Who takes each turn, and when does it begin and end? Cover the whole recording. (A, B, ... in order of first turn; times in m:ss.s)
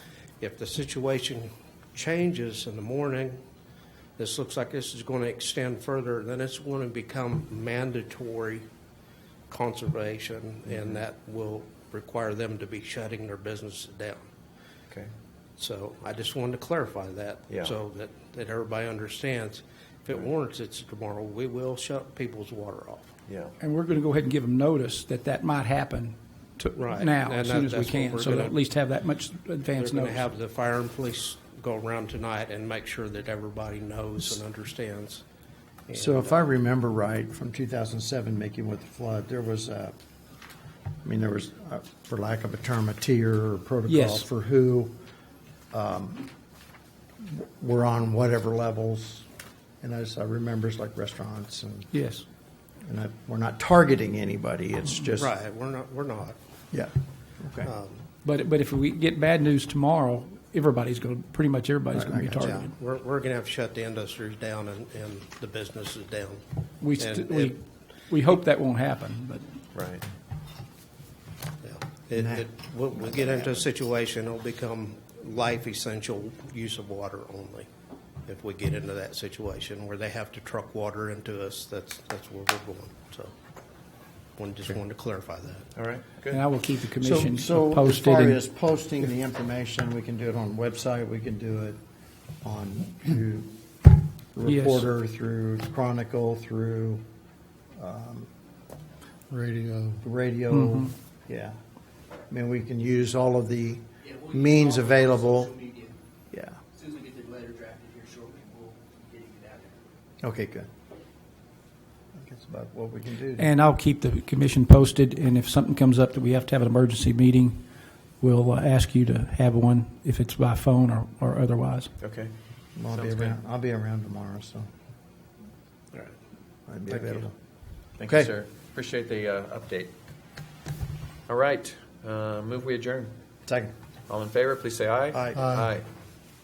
0:00.4-0:03.4 A
0:04.2-0:08.7 A
0:09.5-0:14.3 A
0:15.6-0:23.1 A
0:23.6-0:30.3 B
0:26.8-0:28.6 A
0:29.7-0:35.2 A
0:35.9-0:36.4 A
0:35.9-0:40.0 C
0:41.0-0:45.0 C
0:43.9-0:44.3 B
0:45.7-0:46.3 C
0:47.2-0:49.3 C
0:49.8-0:51.9 C
0:51.9-0:52.2 B
0:52.9-0:55.3 C
0:55.2-0:56.4 A
0:56.7-0:57.7 C
0:57.6-0:58.0 A
0:58.2-1:02.7 B
1:01.9-1:02.6 C
1:02.4-1:06.4 A
1:06.8-1:09.4 B
1:06.9-1:07.6 A
1:09.7-1:10.0 D
1:11.6-1:17.7 A
1:12.2-1:13.6 C
1:18.3-1:23.4 A
1:24.4-1:25.7 A
1:25.8-1:26.4 D
1:26.3-1:28.4 B
1:27.0-1:31.8 C
1:32.4-1:37.0 C
1:34.4-1:34.9 B
1:37.8-1:38.3 C
1:39.3-1:41.5 C
1:40.5-1:40.9 B
1:42.3-1:45.6 C
1:44.1-1:45.9 E
1:46.3-1:46.6 C
1:46.8-1:49.8 E
1:50.2-1:50.7 C
1:52.2-1:53.5 C
1:53.4-1:57.6 B
1:58.2-2:01.9 B
2:02.0-2:02.3 D
2:02.8-2:04.7 C
2:02.9-2:03.3 D
2:06.7-2:07.4 C
2:06.9-2:07.3 A
2:08.0-2:09.9 D
2:08.0-2:08.3 C
2:11.3-2:13.1 D
2:13.5-2:13.7 C
2:14.1-2:15.8 D
2:15.3-2:15.7 C